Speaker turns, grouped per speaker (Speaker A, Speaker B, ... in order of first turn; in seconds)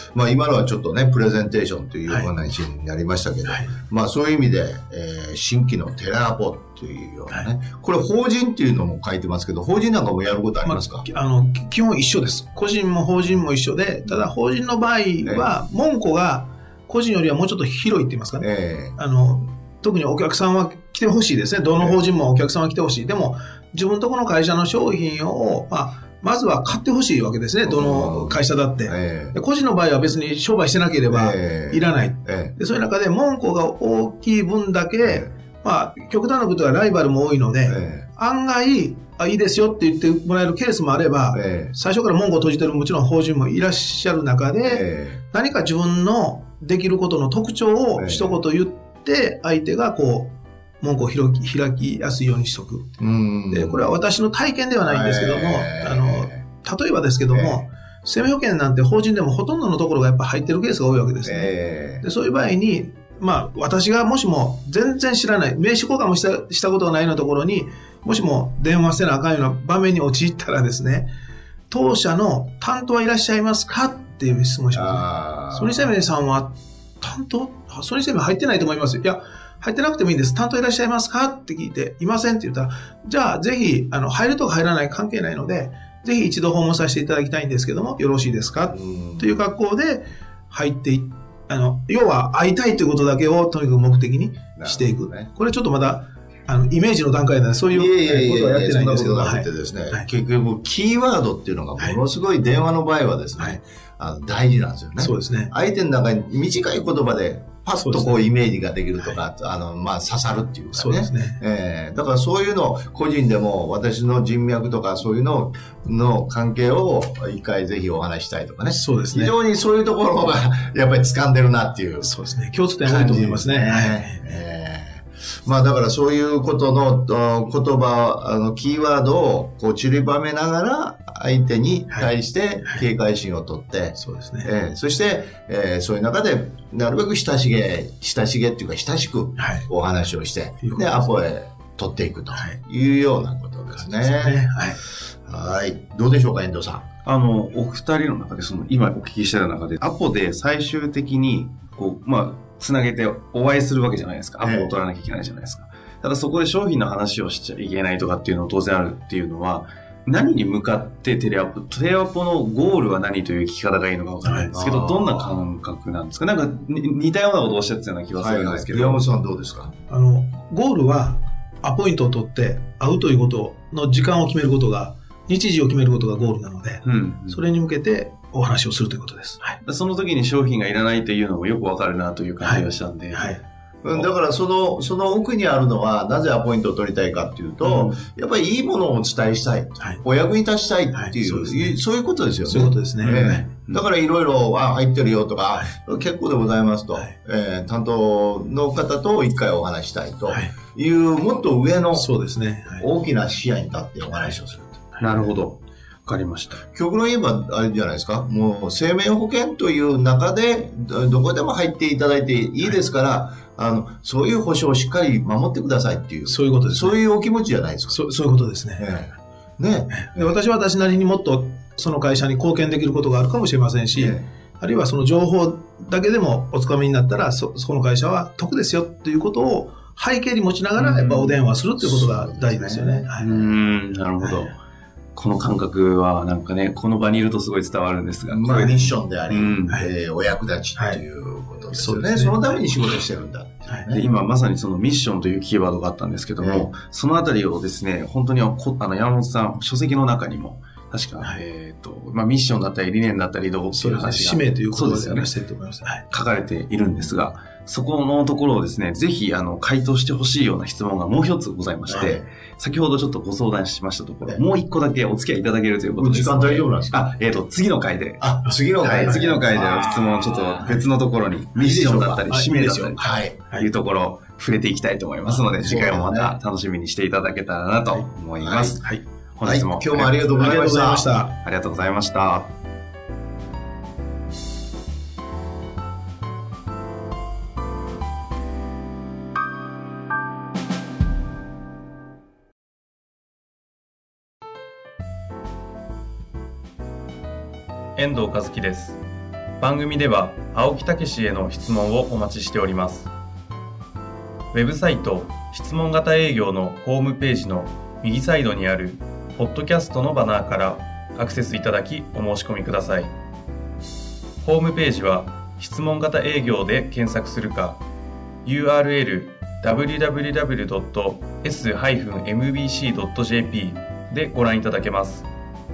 Speaker A: 0.1-11.0, 15.2-15.5, 18.4-18.9, 27.6-29.4, 31.1-32.5, 35.0-35.3, 37.6-38.1, 41.3-41.7, 44.6-45.2, 48.0-48.4, 53.0-53.9, 54.8-56.4, 57.3-57.6, 61.2-62.0, 74.7-75.9, 88.7-89.4, 94.6-95.3, 97.7-122.1, 122.8-144.5, 145.1-146.8, 154.4-154.7, 164.5-165.3, 168.2-169.7, 183.8-202.1, 202.8-204.8, 206.7-218.0, 218.8-220.3, 223.9-224.3, 231.8-233.6, 238.3-244.0, 246.4-246.7, 261.9-262.2, 266.0-267.1, 268.2-270.8, 271.5-272.3, 273.0-273.4, 275.5-276.4, 278.4-278.8, 279.4-281.1
Speaker B: 3.5-3.7, 10.6-52.9, 53.5-71.1, 71.7-100.1, 105.0-105.5, 107.8-108.2, 110.7-111.4, 118.7-119.3, 122.0-124.3, 134.0-134.5, 139.4-139.7, 140.6-141.1, 143.7-144.8, 164.2-164.5, 169.9-179.6, 182.4-183.4, 190.9-191.8, 192.4-193.4, 200.3-200.5, 201.9-202.9, 205.0-205.2, 216.2-216.9, 217.9-218.8, 219.9-233.3, 234.2-234.5, 238.5-238.8, 240.8-241.0, 241.7-242.5, 253.7-256.0, 268.5-269.3, 272.3-273.7, 280.3-281.3
Speaker C: 147.0-169.1, 176.8-177.4, 179.6-183.4, 187.6-188.0, 193.0-193.8, 205.0-206.6, 230.8-231.4, 233.2-234.6, 235.1-238.8, 239.3-239.8, 243.9-255.3, 256.1-268.3, 268.8-278.8, 279.4-280.2, 281.4-282.5, 297.9-299.0, 299.6-303.1, 304.5-313.1, 314.4-317.8, 318.4-325.3